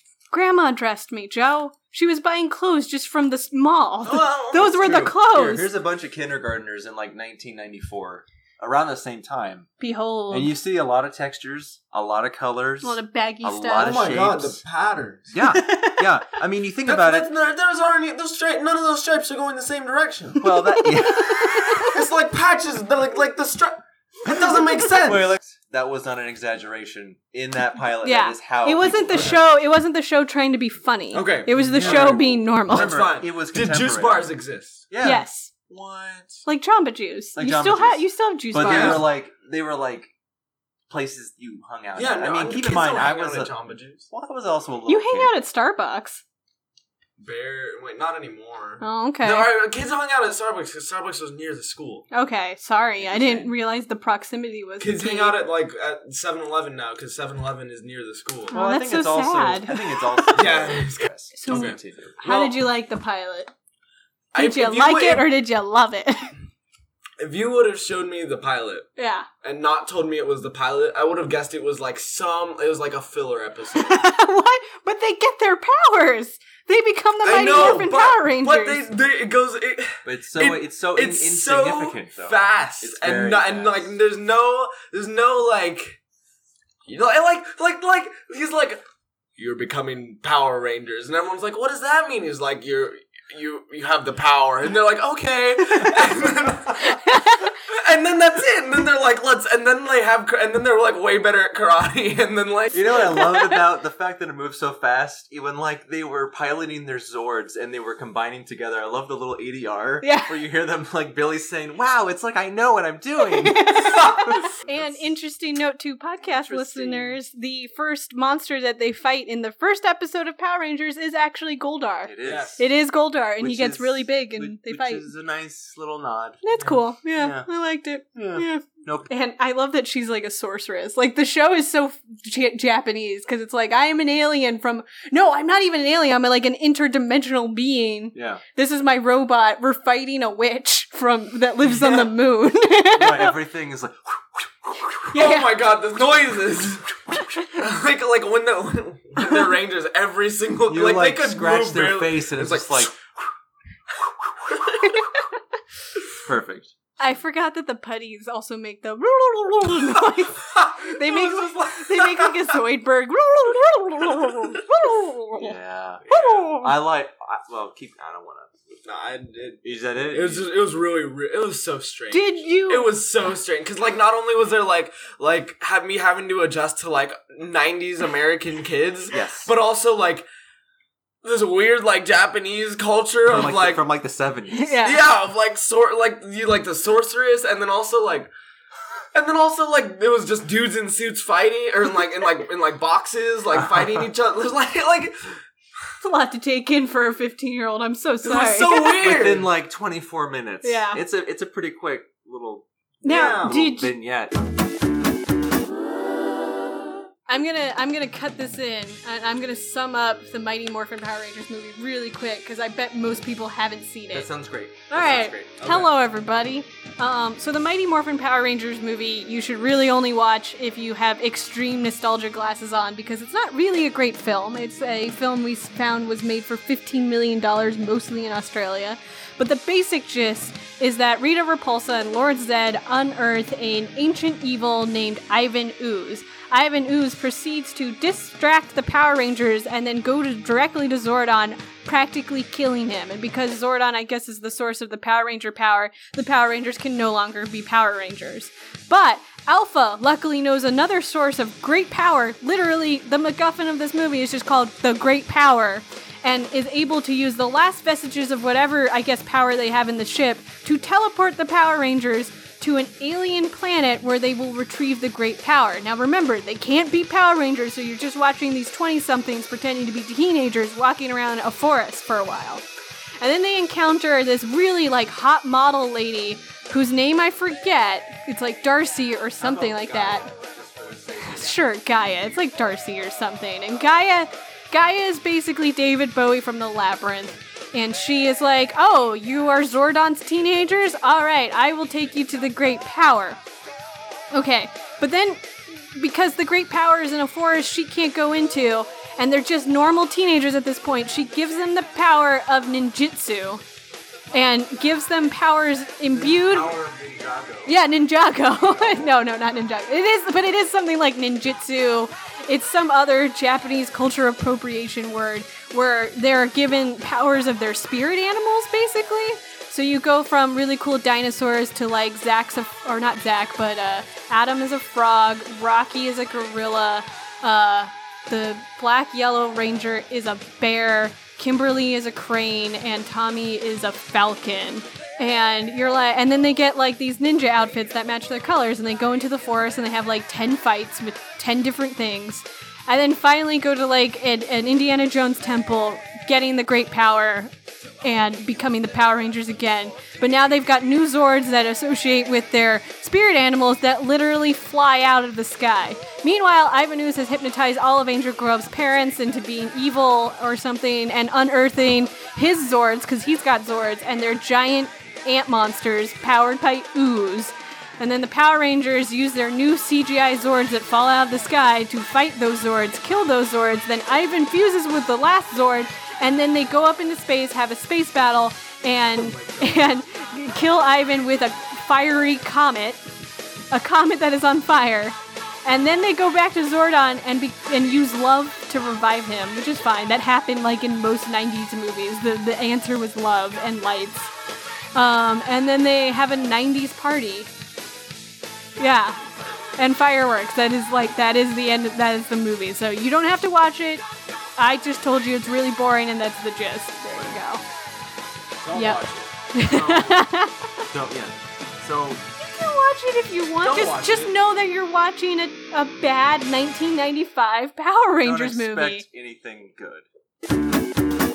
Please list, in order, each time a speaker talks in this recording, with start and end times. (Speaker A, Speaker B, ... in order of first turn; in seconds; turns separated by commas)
Speaker A: 0.3-5.7, Speaker B: 4.0-5.2, Speaker C: 4.8-9.7, Speaker A: 9.8-10.5, Speaker C: 10.3-14.6, Speaker A: 12.8-13.9, Speaker B: 13.8-15.3, Speaker C: 15.3-17.3, Speaker A: 15.4-16.1, Speaker B: 16.9-20.5, Speaker C: 20.4-21.9, Speaker A: 20.6-22.0, Speaker B: 21.8-25.3, Speaker C: 24.9-29.4, Speaker A: 28.0-32.9, Speaker B: 29.1-29.4, Speaker B: 31.1-34.9, Speaker C: 31.6-34.3, Speaker C: 34.9-35.2, Speaker A: 35.0-35.5, Speaker B: 35.7-36.4, Speaker A: 36.5-39.0, Speaker C: 37.4-40.1, Speaker B: 38.6-39.0, Speaker C: 40.9-45.3, Speaker B: 42.0-44.1, Speaker A: 44.9-46.2, Speaker B: 47.2-52.1, Speaker A: 48.8-49.5, Speaker A: 52.1-55.4, Speaker C: 53.0-53.5, Speaker B: 54.8-58.5, Speaker C: 58.5-62.2, Speaker A: 58.5-60.6, Speaker B: 60.3-62.6, Speaker A: 61.3-63.5, Speaker B: 64.3-65.3, Speaker A: 64.3-66.3, Speaker B: 67.2-68.9, Speaker A: 69.0-69.3, Speaker B: 69.4-74.0, Speaker A: 73.7-78.8, Speaker B: 77.2-86.0, Speaker C: 80.0-83.9, Speaker B: 86.8-88.8, Speaker B: 89.4-102.9, Speaker A: 96.9-97.5, Speaker C: 102.7-115.0, Speaker A: 103.3-103.6, Speaker A: 110.0-110.3, Speaker A: 113.2-125.1, Speaker B: 114.0-114.2, Speaker C: 116.6-116.9, Speaker C: 122.0-122.6, Speaker B: 122.2-122.6, Speaker C: 123.4-126.4, Speaker A: 126.4-143.3, Speaker C: 127.2-127.5, Speaker C: 128.1-129.1, Speaker C: 138.1-138.4, Speaker C: 142.9-145.1, Speaker A: 145.1-145.5, Speaker B: 145.1-153.0, Speaker C: 150.7-152.9, Speaker A: 154.8-155.2, Speaker C: 156.1-156.7, Speaker A: 157.0-166.7, Speaker B: 160.4-162.6, Speaker C: 165.4-168.5, Speaker B: 168.8-180.2, Speaker C: 169.6-170.5, Speaker A: 172.1-172.9, Speaker C: 179.1-179.5, Speaker B: 181.2-183.8, Speaker C: 183.2-184.8, Speaker A: 184.5-185.0, Speaker B: 184.8-188.3, Speaker B: 189.1-195.4, Speaker C: 193.5-194.1, Speaker A: 196.0-199.1, Speaker B: 198.2-199.5, Speaker C: 199.0-204.4, Speaker A: 200.6-201.0, Speaker A: 203.0-203.9, Speaker B: 203.0-203.6, Speaker A: 207.3-214.3, Speaker C: 214.1-215.7, Speaker A: 214.9-272.6, Speaker B: 215.6-215.9, Speaker A: 273.2-280.3, Speaker C: 279.4-281.5, Speaker A: 281.2-293.4, Speaker A: 294.3-303.6, Speaker A: 304.3-306.8, Speaker C: 306.1-307.7, Speaker A: 307.6-383.0, Speaker C: 308.7-309.0, Speaker B: 379.1-379.9, Speaker A: 383.7-394.3, Speaker A: 394.9-397.5, Speaker A: 398.8-404.0, Speaker A: 404.6-407.6, Speaker B: 408.6-410.2, Speaker A: 408.7-410.8, Speaker C: 410.9-412.2, Speaker A: 412.4-419.0, Speaker B: 413.6-414.3, Speaker C: 418.2-420.1